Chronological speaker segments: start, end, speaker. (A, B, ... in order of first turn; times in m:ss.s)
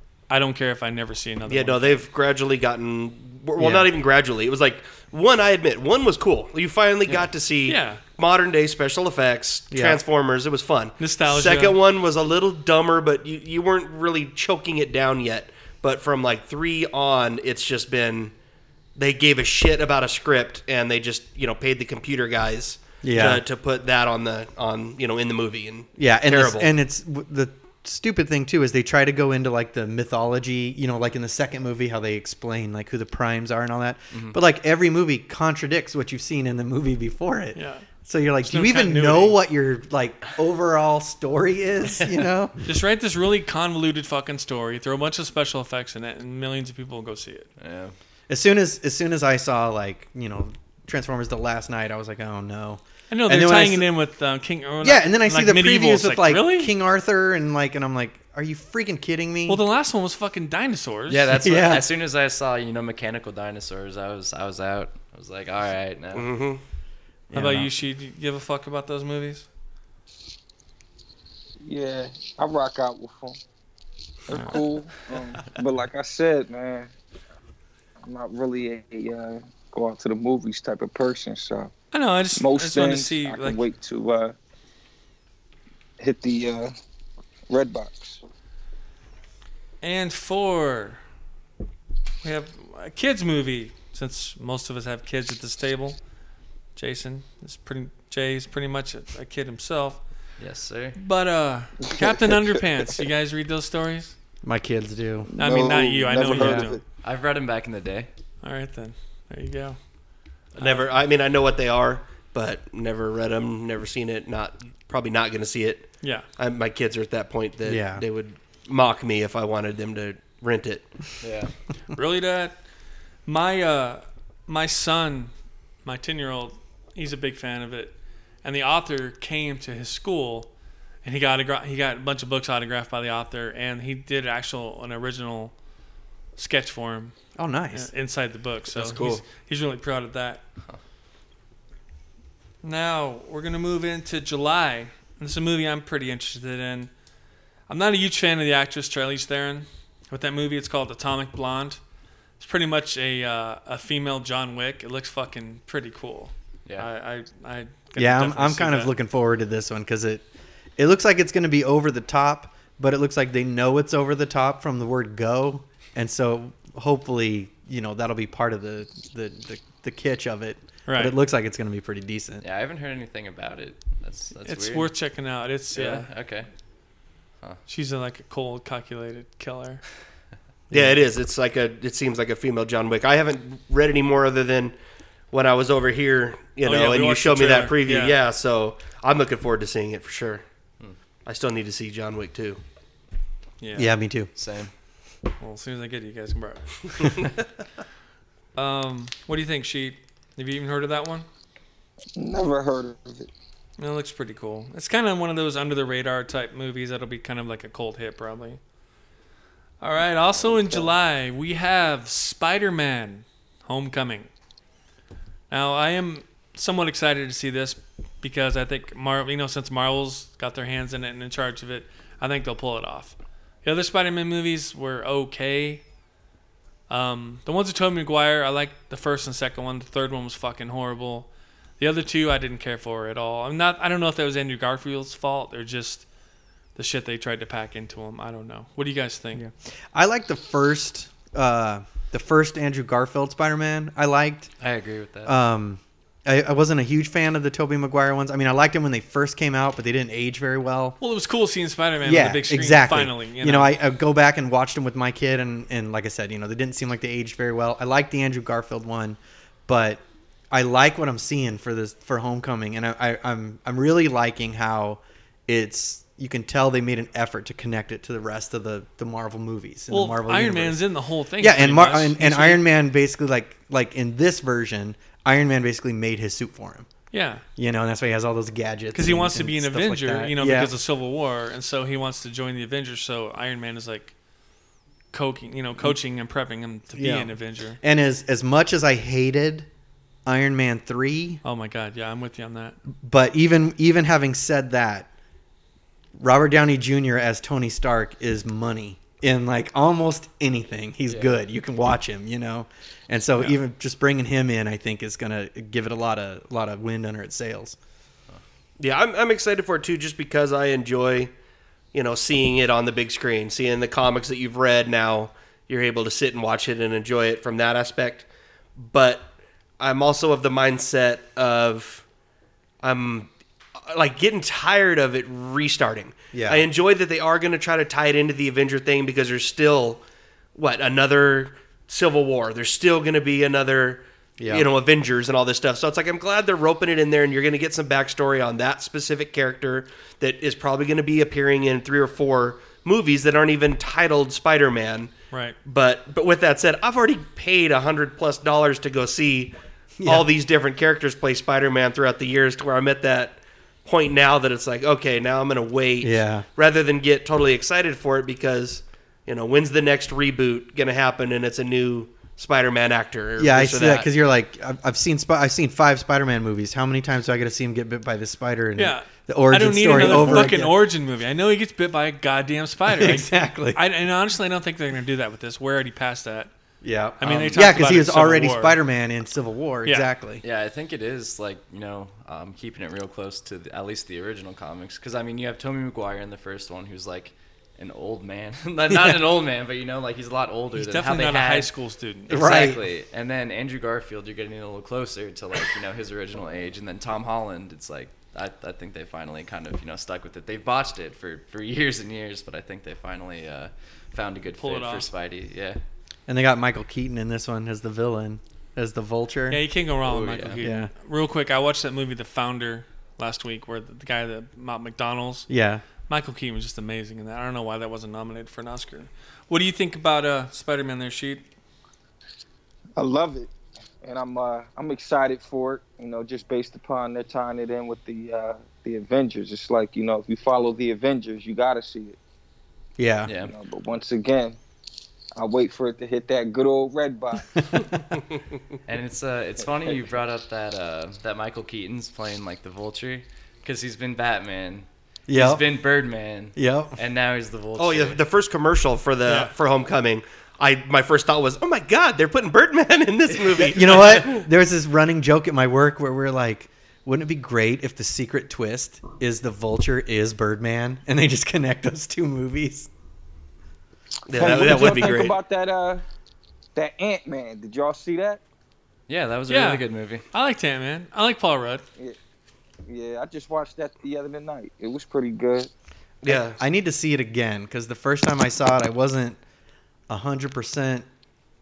0:00.3-0:02.0 A
0:01.5-0:18.3 B
0:03.6-0:03.9 C
0:07.6-0:08.0 A
0:09.7-0:10.0 C
0:11.0-0:11.8 A
0:18.9-0:26.7 B
0:23.0-0:23.4 C
0:26.0-0:42.6 C
0:34.1-0:34.4 D
0:37.5-0:37.9 A
0:38.4-0:39.4 A
0:42.6-0:47.5 A
0:47.6-0:47.9 D
0:48.3-0:53.8 C
0:53.1-0:56.7 A
0:54.8-0:59.6 C
0:59.5-1:01.3 A
1:01.1-1:06.3 D
1:01.4-1:01.8 C
1:06.1-1:06.6 B
1:07.3-1:07.7 C
1:07.3-1:09.5 A
1:11.6-1:13.4 E
1:14.3-1:16.9 E
1:18.0-1:21.7 E
1:21.9-1:23.7 A
1:22.3-1:24.4 E
1:26.0-1:26.7 E
1:27.5-1:28.2 E
1:29.8-1:31.0 A
1:32.2-1:36.0 A
1:36.7-1:40.3 A
1:40.4-1:41.0 D
1:41.0-1:44.2 A
1:41.8-1:42.3 E
1:44.4-1:45.6 C
1:45.3-1:46.8 E
1:45.4-1:46.8 A
1:46.3-1:46.7 C
1:47.0-1:48.1 D
1:48.4-1:50.0 A
1:50.5-2:01.1 B
1:50.6-1:50.9 A
1:56.0-1:56.2 A
1:57.6-1:58.0 C
2:01.2-2:01.5 D
2:01.9-2:02.7 A
2:03.2-2:10.5 A
2:11.0-2:15.6 A
2:16.4-2:17.2 A
2:17.4-2:17.9 C
2:17.7-2:20.4 A
2:18.8-2:19.2 C
2:22.6-2:26.9 A
2:27.7-2:31.8 A
2:32.4-2:38.9 A
2:38.0-2:40.2 C
2:40.8-2:52.4 C
2:50.8-2:51.1 A
2:52.4-2:54.9 D
2:54.4-2:56.1 A
2:55.7-2:56.5 D
2:57.7-2:59.8 A
3:00.7-3:01.0 C
3:00.7-3:04.8 B
3:05.3-3:10.4 B
3:06.6-3:08.2 A
3:11.2-3:12.6 B
3:13.6-3:14.0 A
3:13.8-3:14.3 C
3:14.4-3:14.7 D
3:15.4-3:17.1 A
3:18.5-3:21.2 A
3:22.2-3:23.3 E
3:23.8-3:28.6 A
3:29.8-3:34.3 A
3:35.5-3:45.8 A
3:46.9-3:56.0 A
3:56.7-3:59.4 A
3:59.3-4:04.5 C
4:04.6-4:05.4 D
4:05.2-4:11.0 C
4:11.0-4:13.7 A
4:12.0-4:30.8 C
4:29.9-4:32.6 A
4:31.4-4:36.9 C
4:37.1-4:37.4 A
4:37.6-4:40.7 C
4:38.9-4:44.1 A
4:45.1-4:47.8 A
4:46.9-4:49.7 C
4:50.2-4:51.4 C
4:51.4-4:52.8 A
4:53.0-4:55.1 C
4:56.2-5:07.8 C
5:01.1-5:01.3 D
5:08.8-5:11.3 B
5:11.9-5:22.0 B
5:22.8-5:23.3 B
5:23.9-5:30.0 B
5:26.3-5:26.7 C
5:30.5-5:45.1 B
5:34.4-5:34.7 C
5:45.3-5:45.6 A
5:45.6-6:04.1 B
5:50.0-5:50.3 C
5:56.0-5:56.4 C
6:03.4-6:10.8 C
6:08.8-6:16.5 A
6:12.9-6:13.8 C
6:16.8-6:20.4 C
6:17.2-6:18.8 A
6:20.4-6:31.7 D
6:30.7-6:32.5 A
6:32.3-6:32.8 C
6:32.3-6:45.8 D
6:44.6-6:45.0 A
6:46.3-6:49.6 C
6:49.5-6:55.5 A
6:50.0-6:50.6 D
6:50.6-6:50.9 C
6:55.5-6:55.8 C
6:56.1-7:01.5 A
7:03.0-7:12.2 E
7:13.0-7:13.3 C
7:13.2-7:13.5 D
7:13.4-7:14.6 E
7:15.3-7:17.5 E
7:18.8-7:28.2 D
7:25.3-7:25.6 C
7:26.5-7:27.0 C
7:27.8-7:34.4 B
7:29.2-7:29.5 A
7:33.6-7:34.0 D
7:33.7-7:42.9 C
7:44.3-7:45.4 B
7:44.3-7:46.0 E
7:46.7-7:48.4 E
7:49.1-7:50.2 D
7:49.5-7:51.8 A
7:52.8-7:55.7 E
7:56.2-7:56.6 B
7:56.2-7:59.4 C
8:00.1-8:01.0 C